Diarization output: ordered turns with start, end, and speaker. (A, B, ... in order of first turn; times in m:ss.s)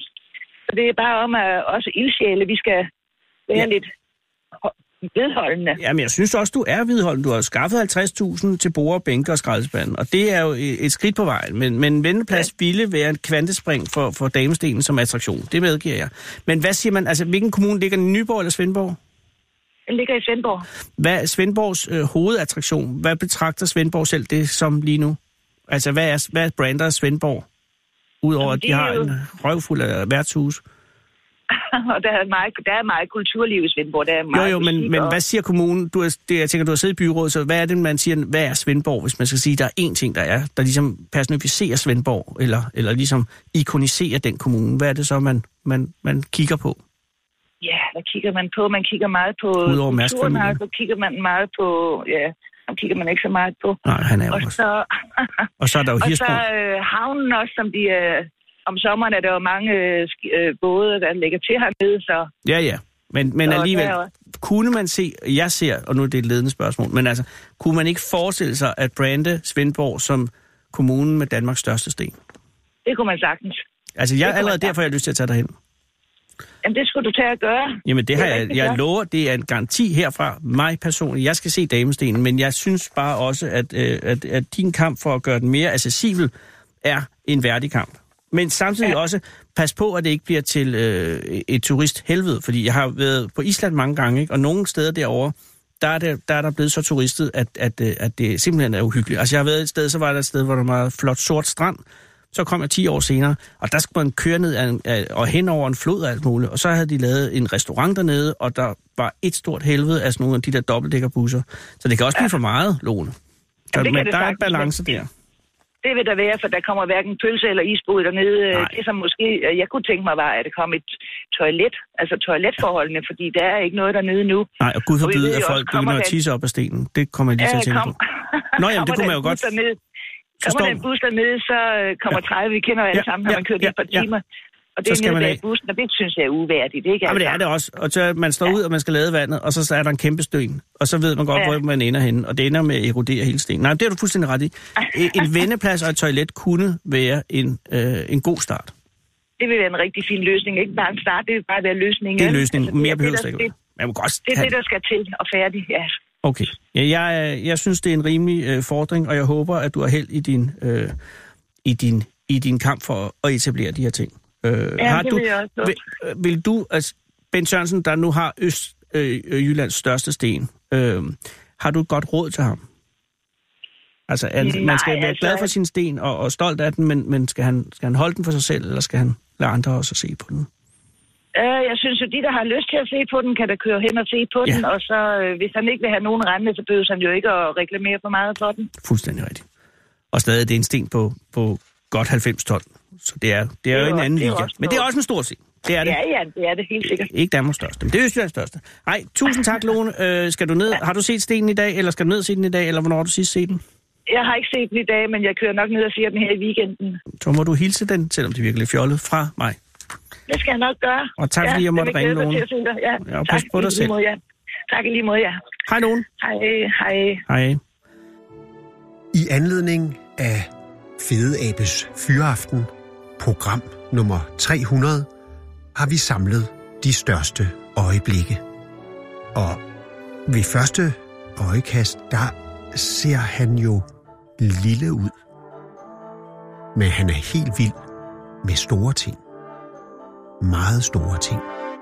0:00.7-0:02.9 A
0:03.5-0:03.9 A
0:04.6-0:05.8 A
0:05.8-0:19.0 B
0:19.9-0:20.6 A
0:21.0-0:25.2 B
0:25.7-0:27.4 B
0:28.2-0:30.6 B
0:28.4-0:29.1 A
0:31.5-0:35.2 A
0:34.3-0:46.8 B
0:47.6-0:53.8 A
0:49.6-0:50.6 B
0:53.8-0:54.5 B
0:54.3-0:55.4 A
0:55.6-0:56.4 B
0:56.0-1:02.3 A
1:02.4-1:12.2 B
1:03.4-1:04.1 A
1:12.8-1:13.6 A
1:14.0-1:15.5 B
1:14.2-1:14.7 A
1:16.6-1:18.8 A
1:17.8-1:26.3 B
1:26.8-1:41.8 B
1:42.3-1:53.1 B
1:53.7-1:55.1 B
1:53.7-1:54.7 A
1:55.8-2:04.5 A
2:04.6-2:07.9 B
2:05.0-2:06.2 A
2:07.4-2:09.8 A
2:08.6-2:09.4 B
2:10.4-2:14.2 A
2:10.4-2:10.8 B
2:12.9-2:14.0 B
2:14.8-2:17.4 A
2:14.9-2:15.4 B
2:17.0-2:28.7 B
2:29.4-2:33.5 A
2:32.2-2:34.5 B
2:34.3-2:35.9 A
2:36.2-2:40.9 B
2:41.6-2:52.6 B
2:44.8-2:45.8 A
2:54.1-3:00.5 B
2:54.4-2:55.5 A
3:01.3-3:08.7 A
3:08.8-3:09.4 B
3:10.1-3:16.0 B
3:13.7-3:14.8 A
3:15.8-3:17.1 A
3:16.9-3:23.6 B
3:24.1-3:27.0 A
3:27.2-3:29.6 B
3:30.3-3:34.2 A
3:31.2-3:32.4 B
3:33.0-3:33.9 B
3:34.7-3:35.4 A
3:35.7-3:36.0 B
3:36.2-3:37.2 A
3:37.3-3:37.6 B
3:39.1-3:45.1 C
3:45.7-3:48.4 C
3:49.3-3:49.6 C
3:50.3-3:53.8 C
3:54.4-3:55.1 C
3:56.7-3:57.8 C
3:58.4-3:59.2 C
4:00.4-4:01.4 C